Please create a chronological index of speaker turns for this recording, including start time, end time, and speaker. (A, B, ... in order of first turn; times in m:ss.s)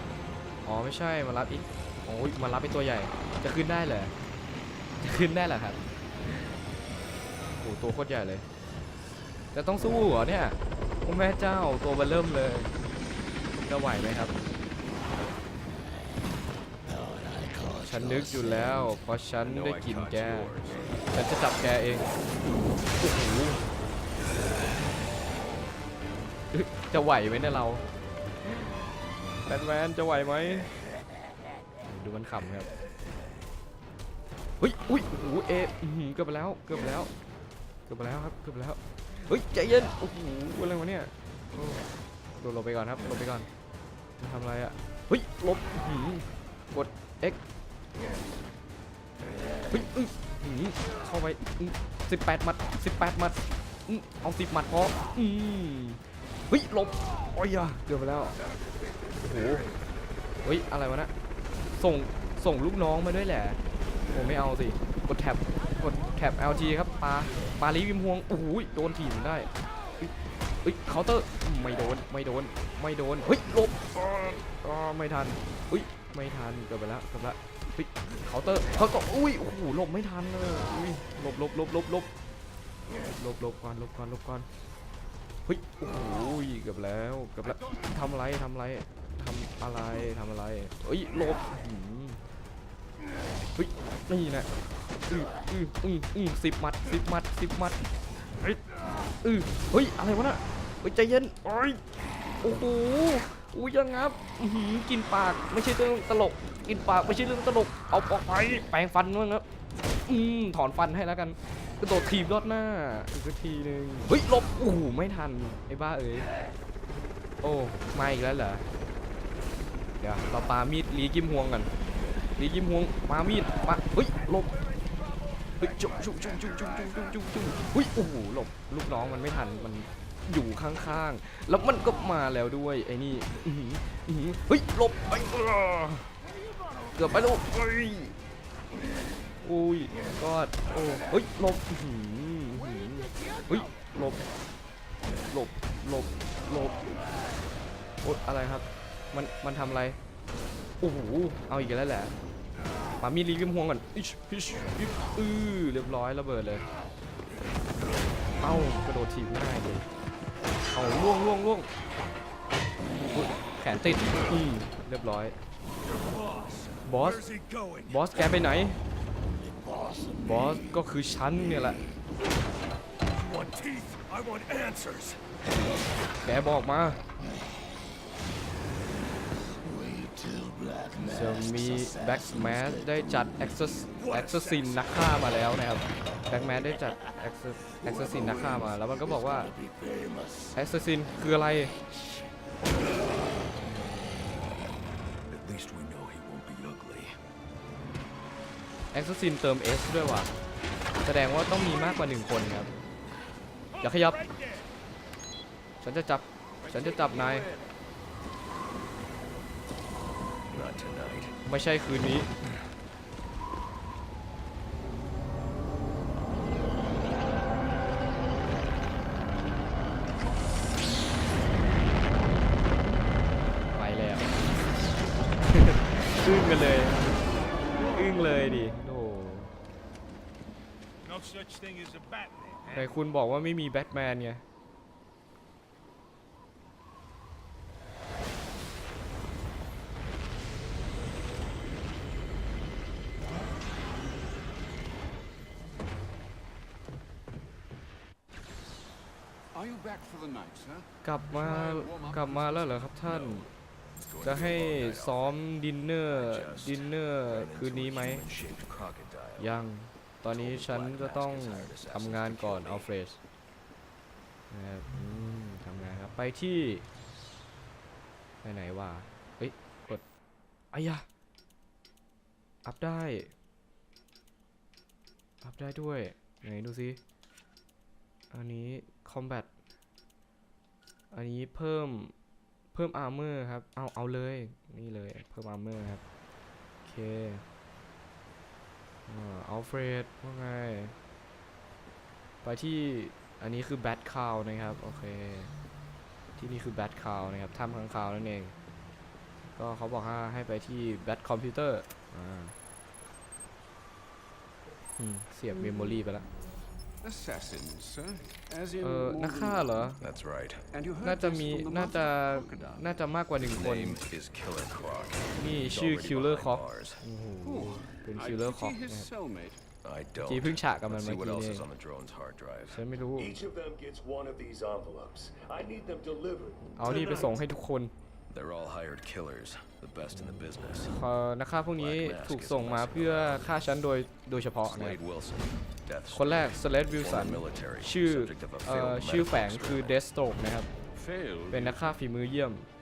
0:00.6-0:04.1 A
0:05.0-0:06.5 A
0:07.6-0:08.5 A
0:09.5-0:12.7 A
0:13.6-0:14.4 A
0:17.8-0:20.5 A
0:17.9-0:21.1 B
0:21.1-0:22.1 A
0:23.0-0:23.6 A
0:26.5-0:27.8 A
0:29.4-0:30.7 A
0:31.8-0:32.7 A
0:34.6-0:37.1 A
0:37.9-0:41.8 A
0:42.4-0:43.5 A
0:44.2-0:47.4 A
0:49.7-0:58.4 A
0:59.2-0:59.7 A
1:00.4-1:01.1 A
1:01.8-1:03.6 A
1:04.1-1:10.1 A
1:10.6-1:22.1 A
1:23.1-1:24.5 A
1:25.4-1:32.2 A
1:33.6-1:34.5 A
1:35.1-1:37.8 A
1:39.2-1:41.8 A
1:42.4-1:49.4 A
1:50.0-1:56.3 A
1:57.4-1:58.7 A
2:00.0-2:01.7 A
2:02.4-2:04.6 A
2:05.6-2:16.1 A
2:16.9-2:18.1 A
2:19.4-2:24.2 A
2:25.3-2:26.8 A
2:28.0-2:30.0 A
2:30.8-2:32.1 A
2:33.0-2:36.6 A
2:38.4-2:39.9 A
2:40.7-2:41.7 A
2:43.1-2:45.4 A
2:45.8-2:48.3 C
2:46.8-2:47.2 A
2:47.9-2:48.8 A
2:49.5-2:50.6 C
2:50.2-2:51.8 A
2:53.1-2:55.2 C
2:56.1-2:57.0 A
2:59.6-3:03.0 C
3:01.0-3:09.5 A
3:03.9-3:04.8 C
3:07.7-3:10.6 C
3:10.5-3:11.7 A
3:15.3-3:17.1 C
3:18.9-3:20.3 A
3:21.0-3:22.7 A
3:23.7-3:24.6 D
3:23.8-3:24.2 A
3:25.8-3:27.5 A
3:26.6-3:27.6 D
3:30.5-3:31.4 B
3:31.4-3:32.3 A
3:43.7-3:44.3 A
3:45.4-3:47.3 A
3:47.8-3:49.5 A
3:51.0-3:52.9 D
3:52.7-3:54.4 A
4:09.5-4:13.0 E
4:11.0-4:13.5 A
4:13.0-4:15.4 B
4:14.2-4:18.2 A
4:16.1-4:19.6 B
4:19.4-4:23.2 A
4:20.3-4:22.9 B
4:24.5-4:26.9 A
4:28.4-4:30.0 A
4:30.7-4:31.0 A
4:32.6-4:33.3 A
4:35.4-4:37.0 A
4:38.3-4:39.5 A
4:41.1-4:42.1 A
4:42.7-4:46.0 A
4:46.8-4:47.4 A
4:49.1-4:50.9 A
4:52.4-4:55.5 A
4:56.4-4:58.5 A
4:59.6-5:02.5 A
5:05.0-5:06.2 A
5:07.0-5:09.9 E
5:08.8-5:10.0 A
5:10.0-5:10.6 B
5:10.7-5:12.8 E
5:11.0-5:14.0 A
5:13.4-5:17.0 B
5:15.3-5:19.1 A
5:17.4-5:19.6 E
5:19.8-5:22.8 B
5:20.2-5:21.6 A
5:22.7-5:23.4 A
5:23.2-5:27.4 C
5:26.7-5:27.9 A
5:28.3-5:31.0 B
5:30.1-5:35.0 A
5:31.7-5:33.6 B
5:34.6-5:40.0 B
5:36.1-5:40.7 A
5:40.9-5:41.8 E
5:41.5-5:42.7 A